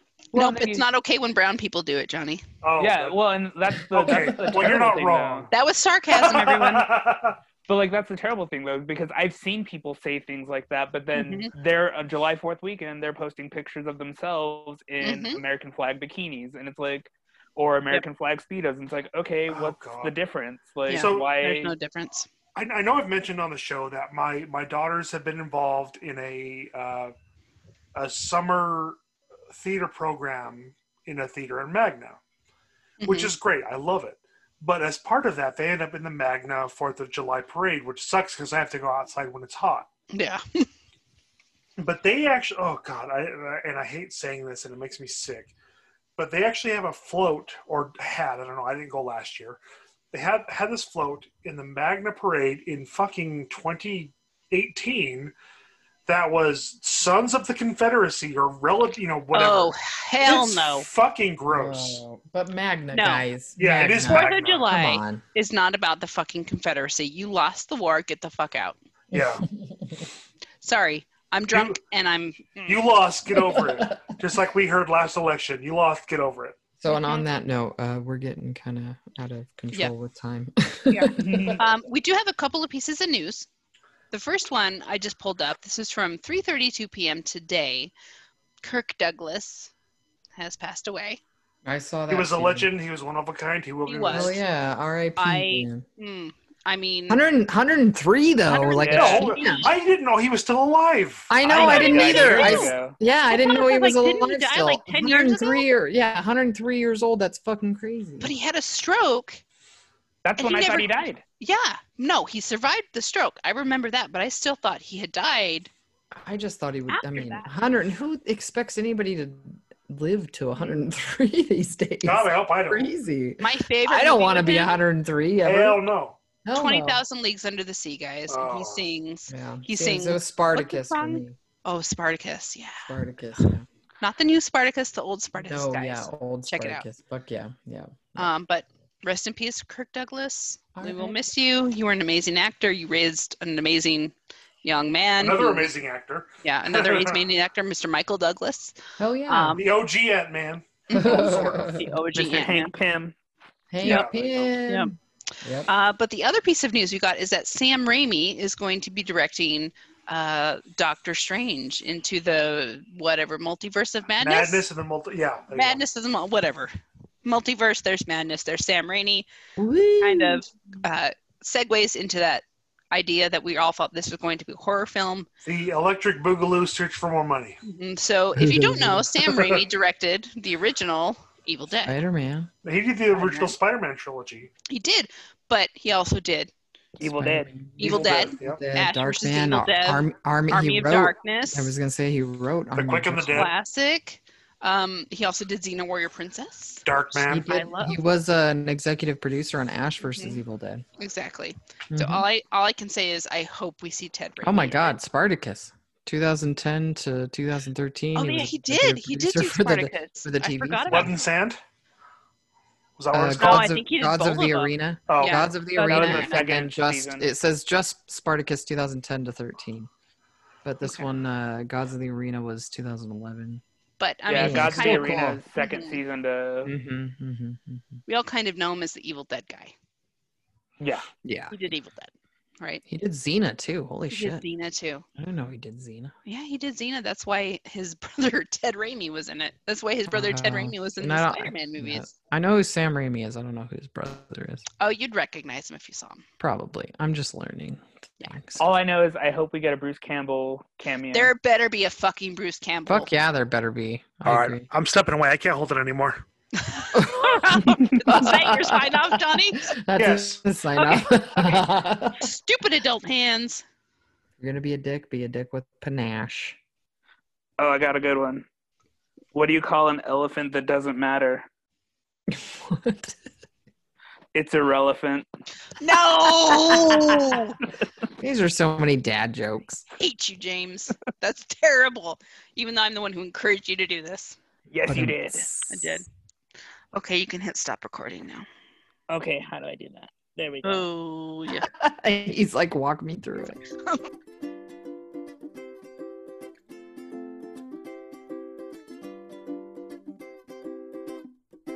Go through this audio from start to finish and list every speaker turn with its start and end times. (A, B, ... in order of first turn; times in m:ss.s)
0:00.3-0:00.8 A
0:00.3-0:02.4 B
0:02.6-0:03.2 C
0:02.8-0:05.5 A
0:03.9-0:05.5 C
0:04.0-0:04.7 D
0:05.5-0:06.9 B
0:06.1-0:07.4 C
0:07.7-0:21.7 A
0:11.1-0:11.5 B
0:15.0-0:15.4 B
0:19.5-0:20.1 C
0:20.9-0:22.3 B
0:20.9-0:21.3 C
0:22.6-0:27.1 C
0:28.0-0:29.0 C
0:29.5-0:32.2 C
0:33.0-0:33.3 B
0:33.0-0:39.9 C
0:40.1-0:40.7 B
0:41.8-0:45.5 C
0:46.2-0:49.6 C
0:50.1-0:55.3 C
0:56.1-1:02.0 C
0:59.3-1:00.9 B
1:01.5-1:05.2 D
1:02.9-1:03.3 B
1:03.6-1:04.7 C
1:04.0-1:08.8 B
1:09.1-1:10.1 D
1:09.1-1:09.5 C
1:10.6-1:12.9 B
1:11.5-1:11.8 C
1:12.7-1:16.6 C
1:13.4-1:14.1 D
1:16.8-1:21.7 D
1:16.9-1:17.3 B
1:20.9-1:23.5 B
1:21.2-1:21.6 A
1:24.1-1:27.9 B
1:28.6-1:29.7 B
1:30.4-1:31.2 B
1:31.6-1:32.7 D
1:32.1-1:34.4 C
1:33.9-1:34.4 B
1:34.1-1:35.8 D
1:35.2-1:37.2 B
1:37.1-1:39.7 D
1:38.5-1:39.8 B
1:38.8-1:39.2 A
1:39.0-1:42.6 C
1:41.3-1:48.4 D
1:41.5-1:42.7 B
1:41.6-1:43.0 A
1:43.3-1:45.6 B
1:48.2-1:49.4 B
1:50.2-1:51.2 A
1:50.4-1:55.7 B
1:56.1-2:05.9 D
1:56.9-1:57.5 B
2:02.0-2:02.9 C
2:03.4-2:04.8 B
2:05.4-2:06.2 C
2:06.4-2:07.0 D
2:06.5-2:16.8 B
2:08.3-2:08.9 C
2:09.3-2:11.4 D
2:12.9-2:13.7 D
2:15.3-2:18.3 D
2:18.2-2:25.7 B
2:20.8-2:21.2 D
2:25.2-2:27.2 C
2:26.4-2:29.6 B
2:29.0-2:29.6 D
2:29.6-2:31.7 C
2:30.9-2:32.7 B
2:30.9-2:32.0 D
2:32.2-2:33.1 A
2:33.7-2:35.7 D
2:33.8-2:34.3 C
2:33.8-2:34.1 B
2:34.7-2:34.9 B
2:35.7-2:44.7 B
2:44.2-2:45.8 C
2:45.5-2:49.3 B
2:49.6-2:50.5 D
2:50.0-2:55.3 B
2:55.4-2:57.6 C
2:57.6-3:02.0 B
2:58.4-2:59.6 D
3:01.8-3:02.5 D
3:02.6-3:04.5 C
3:03.2-3:03.6 B
3:04.7-3:06.5 B
3:07.0-3:08.4 A
3:07.0-3:13.5 D
3:07.8-3:11.7 B
3:12.8-3:13.5 C
3:13.3-3:16.8 B
3:16.8-3:17.5 C
3:17.2-3:20.8 D
3:17.5-3:18.0 B
3:20.0-3:20.4 B
3:21.0-3:25.0 B
3:21.9-3:22.2 D
3:24.4-3:31.1 D
3:28.2-3:31.2 B
3:30.9-3:31.6 C
3:33.0-3:33.7 C
3:33.1-3:39.9 D
3:33.4-3:36.4 B
3:35.1-3:35.5 C
3:35.8-3:37.3 A
3:40.6-3:43.6 D
3:44.0-3:46.0 B
3:44.3-3:46.7 A
3:44.4-3:45.4 D
3:46.6-3:48.0 D
3:48.1-3:49.7 B
3:50.8-3:51.1 A
3:51.2-3:51.6 D
3:51.5-3:52.8 B
3:52.9-3:54.4 D
3:54.1-3:55.0 B
3:55.2-3:56.1 D
3:56.3-4:02.1 B
4:00.1-4:04.7 D
4:04.8-4:06.2 B
4:06.4-4:08.7 D
4:08.6-4:11.3 A
4:11.1-4:13.1 B
4:12.9-4:14.7 D
4:14.2-4:16.2 C
4:16.6-4:19.7 B
4:17.0-4:22.2 D
4:20.0-4:20.4 C
4:20.8-4:21.6 B
4:22.2-4:23.6 B
4:24.4-4:26.6 D
4:27.6-4:28.4 A
4:29.3-4:31.5 A
4:32.3-4:33.2 D
4:34.4-4:35.3 A
4:35.8-4:37.6 B
4:36.5-4:37.4 D
4:38.2-4:39.8 D
4:40.0-4:44.4 B
4:44.7-4:45.4 A
4:44.9-4:46.0 D
4:45.7-4:46.0 B
4:46.9-4:48.5 B
4:49.1-4:50.9 A
4:50.6-4:51.7 B
4:51.6-4:53.6 D
4:53.8-4:54.0 B